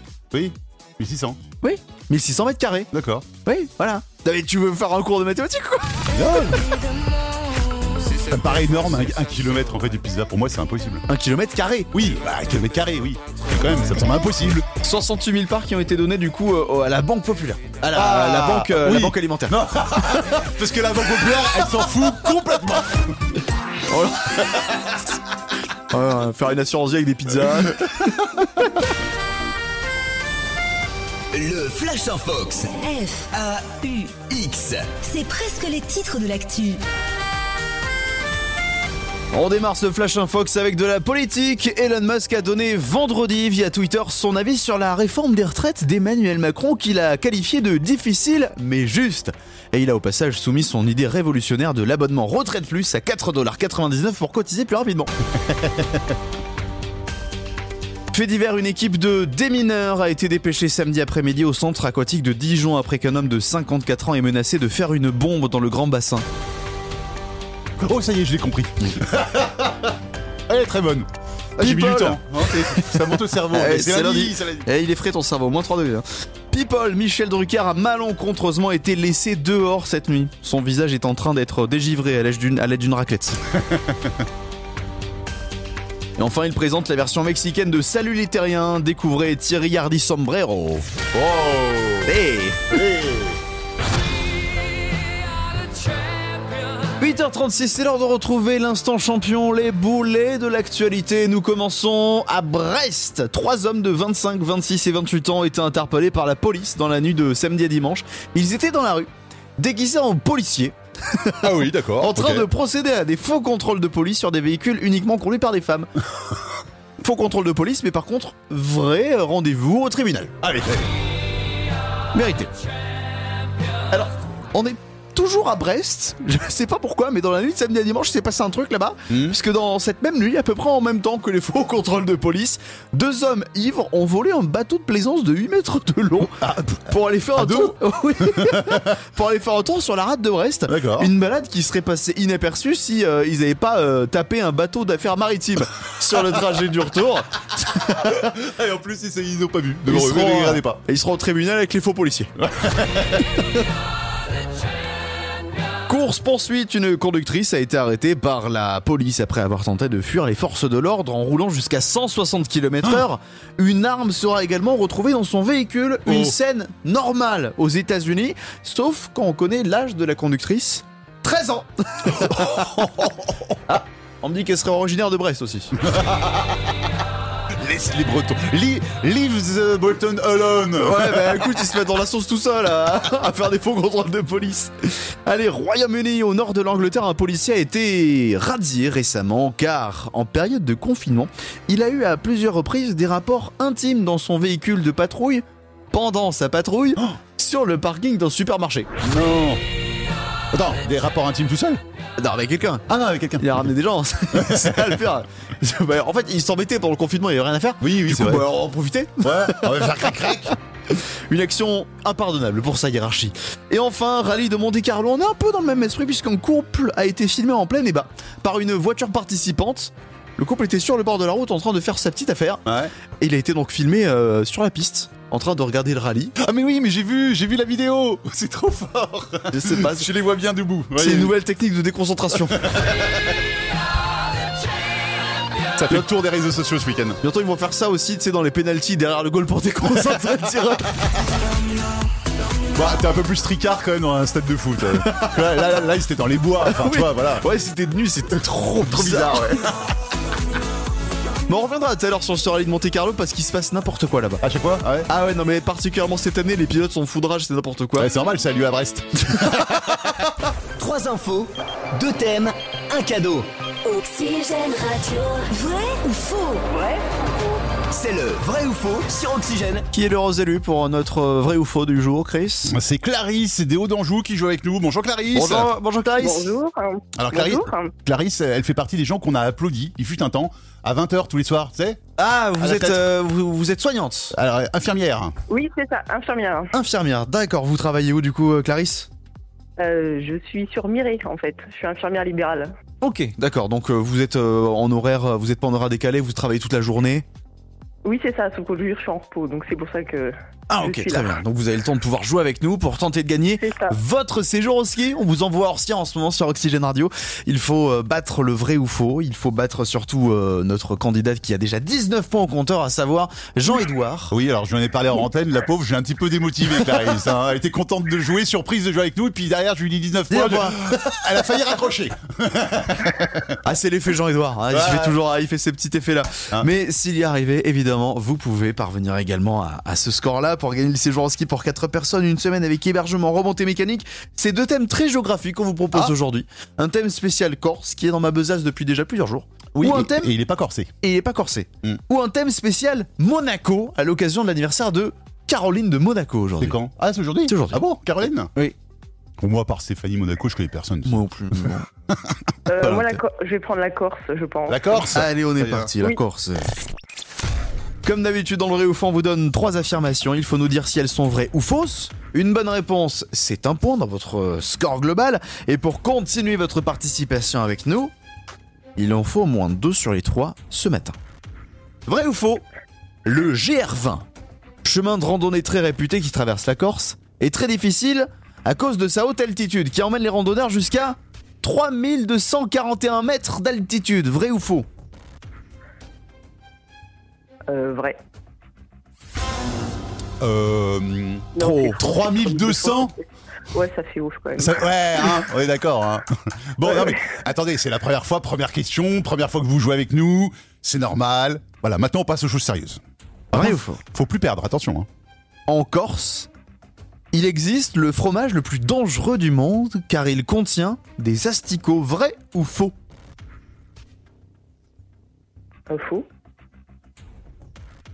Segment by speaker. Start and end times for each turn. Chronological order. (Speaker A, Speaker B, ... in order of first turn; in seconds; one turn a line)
Speaker A: 0.3-1.4
Speaker B: 1.6-2.9
Speaker A: 2.9-3.3
Speaker B: 3.4-6.2
Speaker A: 6.1-6.7
Speaker A: 8.1-11.1
Speaker B: 11.1-11.9
Speaker A: 11.9-14.7
Speaker B: 14.8-19.6
Speaker A: 17.9-23.2
Speaker B: 23.9-24.9
Speaker B: 25.9-28.4
Speaker C: 31.3-32.8
Speaker D: 32.7-33.3
Speaker C: 33.3-34.9
Speaker D: 35.0-36.8
Speaker B: 39.3-55.1
Speaker A: 55.4-56.1
Speaker B: 58.1-66.2
Speaker A: 67.8-69.9
Speaker A: 70.5-74.7
Speaker B: 71.6-83.4
Speaker A: 83.5-84.2
Speaker B: 86.2-90.9
Speaker A: 91.1-92.1
Speaker B: 92.1-92.8
Speaker A: 92.7-93.4
Speaker B: 97.0-115.9
Speaker A: 111.4-112.5
Speaker B: 117.0-120.3
Speaker A: 120.4-120.9
Speaker B: 122.1-122.5
Speaker B: 123.9-148.3
Speaker A: 129.1-129.4
Speaker A: 136.4-136.8
Speaker A: 137.3-138.9
Speaker A: 140.7-141.1
Speaker A: 147.8-150.8
Speaker B: 149.9-152.3
Speaker A: 152.4-153.3
Speaker B: 155.9-172.9
Speaker A: 166.1-166.3
Speaker A: 172.2-173.6
Speaker B: 173.7-175.8
Speaker A: 175.8-176.7
Speaker A: 177.6-181.6
Speaker B: 180.8-198.9
Speaker A: 199.0-199.6
Speaker A: 200.5-201.8
Speaker B: 202.2-202.9
Speaker A: 202.9-203.7
Speaker B: 203.4-210.3
Speaker A: 204.3-205.0
Speaker A: 207.8-208.5
Speaker A: 209.2-210.5
Speaker B: 210.9-222.6
Speaker A: 222.7-222.9
Speaker B: 223.2-226.3
Speaker A: 226.4-231.3
Speaker B: 229.5-230.1
Speaker B: 231.0-232.7
Speaker A: 232.4-233.3
Speaker A: 235.8-237.2
Speaker B: 237.2-241.0
Speaker A: 242.7-247.5
Speaker B: 245.0-245.8
Speaker B: 246.6-249.7
Speaker A: 248.8-249.7
Speaker B: 251.5-254.4
Speaker A: 254.4-255.1
Speaker B: 255.1-258.1
Speaker A: 258.0-260.2
Speaker C: 260.8-263.5
Speaker D: 263.9-266.6
Speaker E: 266.7-267.6
Speaker C: 267.9-269.9
Speaker B: 269.9-272.8
Speaker A: 272.7-275.7
Speaker B: 275.3-276.5
Speaker E: 276.2-277.9
Speaker A: 277.1-282.0
Speaker B: 282.2-284.4
Speaker A: 282.6-283.1
Speaker A: 284.3-285.4
Speaker E: 285.5-286.7
Speaker B: 286.7-289.1
Speaker E: 289.8-292.7
Speaker B: 293.0-297.2
Speaker E: 298.0-301.4
Speaker B: 300.7-314.3
Speaker E: 303.6-304.0
Speaker A: 314.3-323.6
Speaker B: 320.3-321.1
Speaker B: 323.6-340.3
Speaker A: 324.7-325.2
Speaker A: 339.8-340.9
Speaker B: 341.0-346.8
Speaker A: 346.6-348.5
Speaker B: 347.5-347.8
Speaker A: 349.4-353.1
Speaker B: 351.1-351.9
Speaker E: 352.7-355.1
Speaker A: 354.7-355.9
Speaker B: 355.1-356.7
Speaker B: 358.0-368.1
Speaker B: 369.0-371.2
Speaker B: 372.1-372.6
Speaker B: 373.2-374.2
Speaker B: 374.8-384.9
Speaker E: 387.7-388.2
Speaker A: 390.4-393.1
Speaker E: 391.6-394.9
Speaker A: 394.6-403.0
Speaker B: 403.5-404.0
Speaker A: 403.5-405.1
Speaker B: 405.7-406.5
Speaker B: 407.3-412.9
Speaker E: 415.9-416.2